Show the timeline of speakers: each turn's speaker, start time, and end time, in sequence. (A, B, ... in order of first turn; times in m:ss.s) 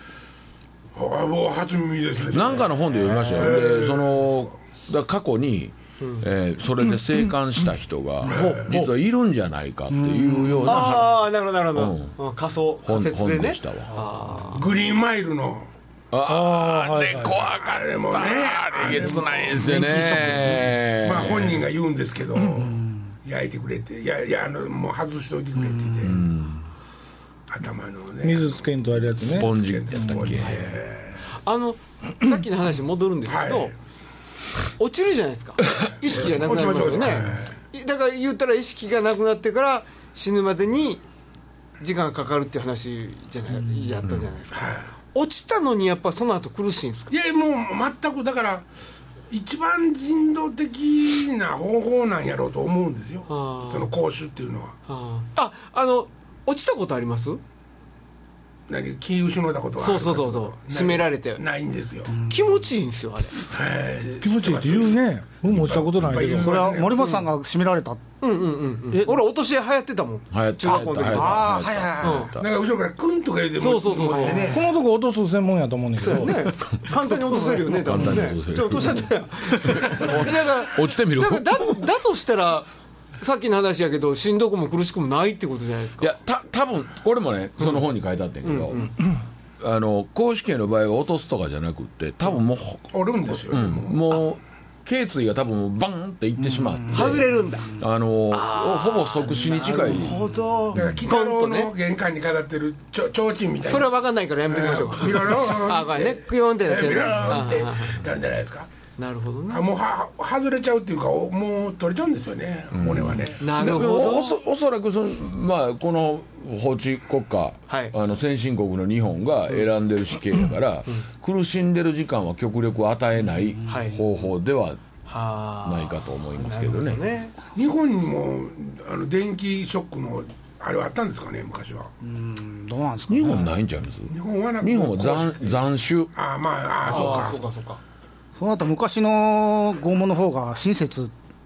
0:00.9-0:04.5 A
0:02.3-0:12.1 B
0:06.0-0:06.3 C
0:08.2-0:08.7 A
0:08.2-0:08.9 C
0:10.0-0:10.8 D
0:10.6-0:14.7 C
0:12.8-0:13.9 B
0:14.5-0:15.7 A
0:16.1-0:21.6 B
0:16.2-0:17.4 E
0:17.2-0:26.2 A
0:19.6-0:20.6 D
0:22.6-0:23.0 D
0:25.6-0:26.2 D
0:26.0-0:26.6 B
0:27.5-0:31.2 A
0:28.2-0:30.3 E
0:29.2-0:30.5 B
0:31.4-0:33.7 C
0:33.2-0:33.7 A
0:34.8-0:41.0 C
0:35.9-0:37.5 A
0:41.8-0:47.1 C
0:44.5-0:44.9 A
0:47.1-0:48.7 A
0:49.3-0:54.8 A
0:53.3-0:53.9 C
0:54.9-0:57.4 C
0:58.7-1:02.1 A
0:59.8-1:01.4 C
1:02.1-1:02.5 D
1:02.2-1:03.4 C
1:03.5-1:07.1 A
1:04.2-1:06.7 E
1:06.4-1:08.0 D
1:07.0-1:07.3 C
1:08.2-1:12.3 C
1:08.9-1:09.2 D
1:10.3-1:12.5 B
1:11.0-1:12.3 D
1:12.4-1:14.7 A
1:13.6-1:14.6 C
1:14.5-1:18.1 E
1:16.0-1:22.7 C
1:17.8-1:21.8 B
1:23.2-1:26.1 C
1:26.0-1:28.8 B
1:27.6-1:27.8 C
1:28.4-1:28.9 C
1:29.6-1:32.9 B
1:32.9-1:34.2 A
1:33.5-1:41.0 B
1:36.4-1:37.2 D
1:36.9-1:37.7 C
1:38.3-1:41.7 C
1:40.7-1:43.9 A
1:43.7-1:48.0 C
1:44.5-1:48.7 A
1:49.0-1:49.7 C
1:49.5-1:53.4 A
1:52.7-2:04.8 B
1:53.4-1:54.4 C
1:57.7-1:57.9 C
2:03.7-2:04.0 C
2:05.1-2:07.4 C
2:05.6-2:07.0 B
2:07.5-2:11.9 A
2:12.0-2:13.5 D
2:13.1-2:16.1 B
2:14.1-2:15.6 A
2:16.1-2:17.4 A
2:16.8-2:17.8 C
2:18.3-2:21.1 D